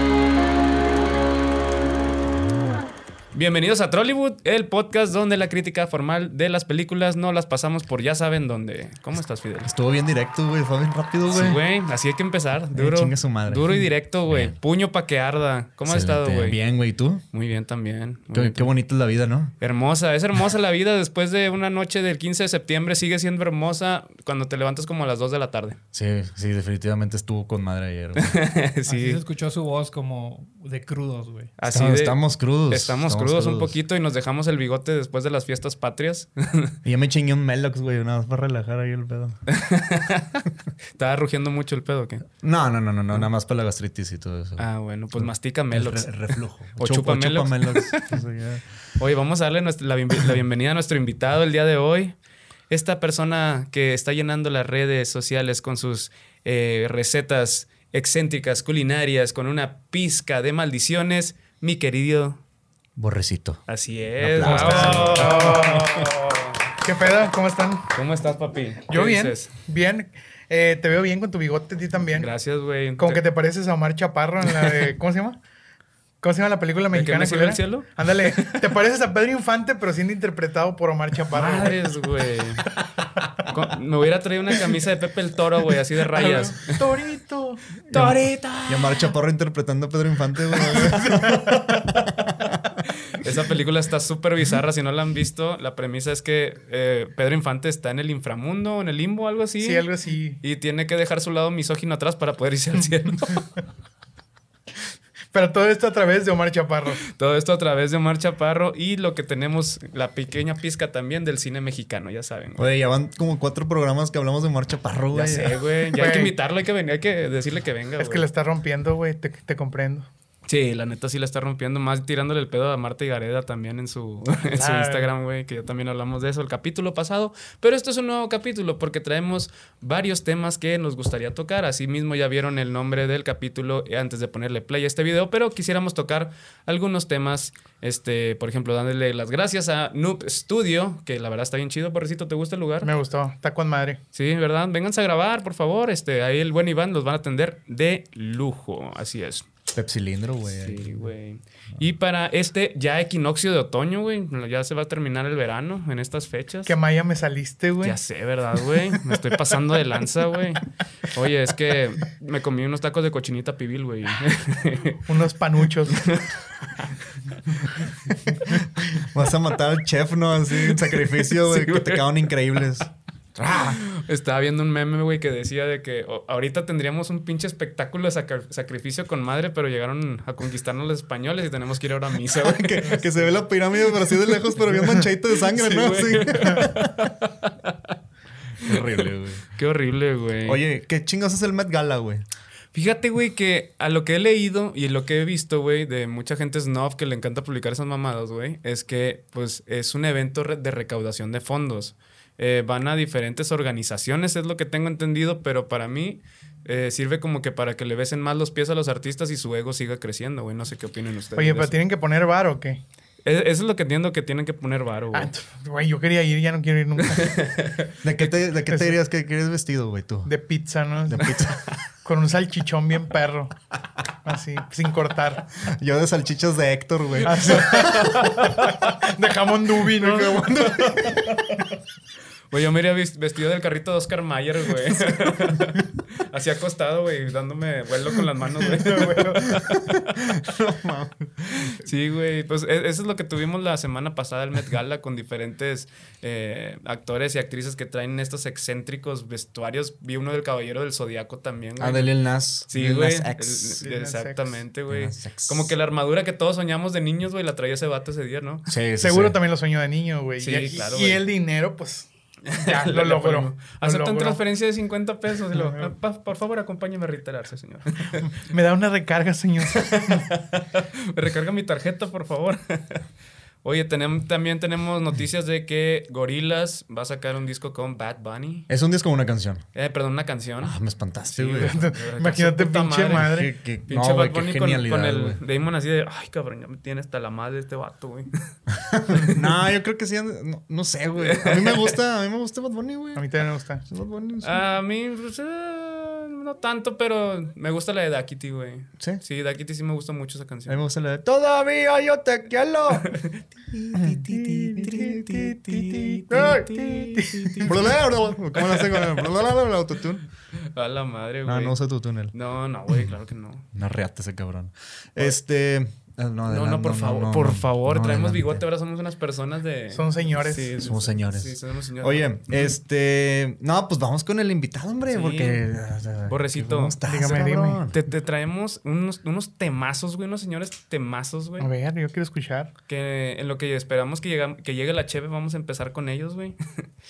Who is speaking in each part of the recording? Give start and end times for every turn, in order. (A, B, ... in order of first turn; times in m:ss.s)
0:03.3-0:09.7 A
0:09.6-0:11.6 B
0:11.3-0:16.6 A
0:12.7-0:14.6 B
0:15.8-0:17.2 B
0:17.3-0:18.7 A
0:18.3-0:19.5 B
0:19.6-0:25.8 A
0:25.9-0:28.4 B
0:28.2-0:29.2 A
0:28.9-0:31.5 C
0:31.6-0:36.8 A
0:31.7-0:33.8 B
0:36.8-0:39.4 B
0:39.5-0:42.3 A
0:42.4-0:44.6 B
0:44.6-0:48.1 A
0:45.2-0:48.6 B
0:49.0-0:52.2 A
0:52.7-1:02.4 A
1:03.0-1:03.6 B
1:03.7-1:06.6 A
1:04.2-1:05.5 B
1:04.4-1:06.1 D
1:06.8-1:07.9 D
1:07.9-1:09.5 A
1:08.9-1:12.3 D
1:12.2-1:13.2 A
1:13.0-1:15.4 D
1:16.2-1:21.8 D
1:16.9-1:18.7 A
1:21.3-1:22.6 A
1:23.4-1:26.8 A
1:26.2-1:26.5 B
1:26.2-1:27.6 D
1:27.9-1:32.6 B
1:27.9-1:29.1 A
1:32.9-1:39.9 A
1:39.6-1:40.4 D
1:40.4-1:43.5 A
1:45.3-1:47.0 D
1:47.0-1:52.7 A
1:52.6-1:55.6 B
1:55.1-1:58.2 A
1:56.0-1:56.4 D
1:58.0-2:00.1 D
2:00.5-2:22.9 A
2:04.5-2:05.1 D
2:22.8-2:24.0 D
2:24.1-2:29.5 A
2:29.7-2:30.9 B
2:30.5-2:36.8 A
2:36.7-2:38.0 D
2:37.8-2:45.0 A
2:45.1-2:46.1 D
2:46.0-2:46.9 A
2:48.5-2:53.8 B
2:50.6-2:52.3 A
2:53.5-3:03.3 A
3:02.4-3:07.1 B
3:05.5-3:08.0 A
3:08.6-3:09.5 B
3:08.6-3:10.6 A
3:10.5-3:12.2 B
3:12.7-3:31.8 A
3:31.4-3:32.8 D
3:33.2-3:35.3 A
3:35.1-3:37.4 D
3:37.0-3:38.3 A
3:38.0-3:40.3 B
3:38.7-3:39.0 D
3:40.3-3:43.5 D
3:41.1-3:41.7 B
3:44.2-3:45.5 D
3:45.6-3:48.3 B
3:47.2-3:48.2 D
3:47.5-3:48.8 A
3:48.8-3:50.9 D
3:49.8-3:51.6 B
3:52.5-4:00.0 A
3:54.9-3:55.8 B
3:58.9-3:59.4 D
3:59.4-4:01.8 B
4:01.6-4:12.1 A
4:11.8-4:13.8 B
4:12.7-4:18.7 A
4:13.8-4:14.6 D
4:14.9-4:15.7 B
4:18.7-4:19.4 B
4:19.0-4:22.1 D
4:20.4-4:21.2 A
4:22.4-4:28.3 A
4:22.6-4:24.4 D
4:25.5-4:25.9 D
4:28.4-4:30.3 D
4:29.7-4:33.0 A
4:33.6-4:38.7 A
4:38.7-4:39.6 B
4:39.8-4:40.8 A
4:40.6-4:41.7 B
4:41.3-4:43.3 A
4:41.6-4:43.5 D
4:43.2-4:45.4 B
4:43.9-4:48.3 A
4:48.7-4:53.3 B
4:51.2-4:52.0 A
4:53.2-4:53.8 D
4:53.9-4:54.7 B
4:54.4-5:00.8 A
5:00.7-5:03.1 B
5:03.0-5:07.9 A
5:03.9-5:06.7 B
5:05.4-5:07.7 D
5:07.6-5:10.2 B
5:08.7-5:09.1 A
5:10.7-5:11.8 A
5:11.5-5:12.3 B
5:12.3-5:13.7 A
5:13.7-5:18.6 B
5:16.5-5:22.6 A
5:19.9-5:20.7 D
5:20.8-5:28.0 B
5:25.1-5:25.6 A
5:26.3-5:27.0 A
5:27.0-5:27.8 D
5:27.9-5:31.7 A
5:31.6-5:32.7 D
5:32.9-5:36.9 A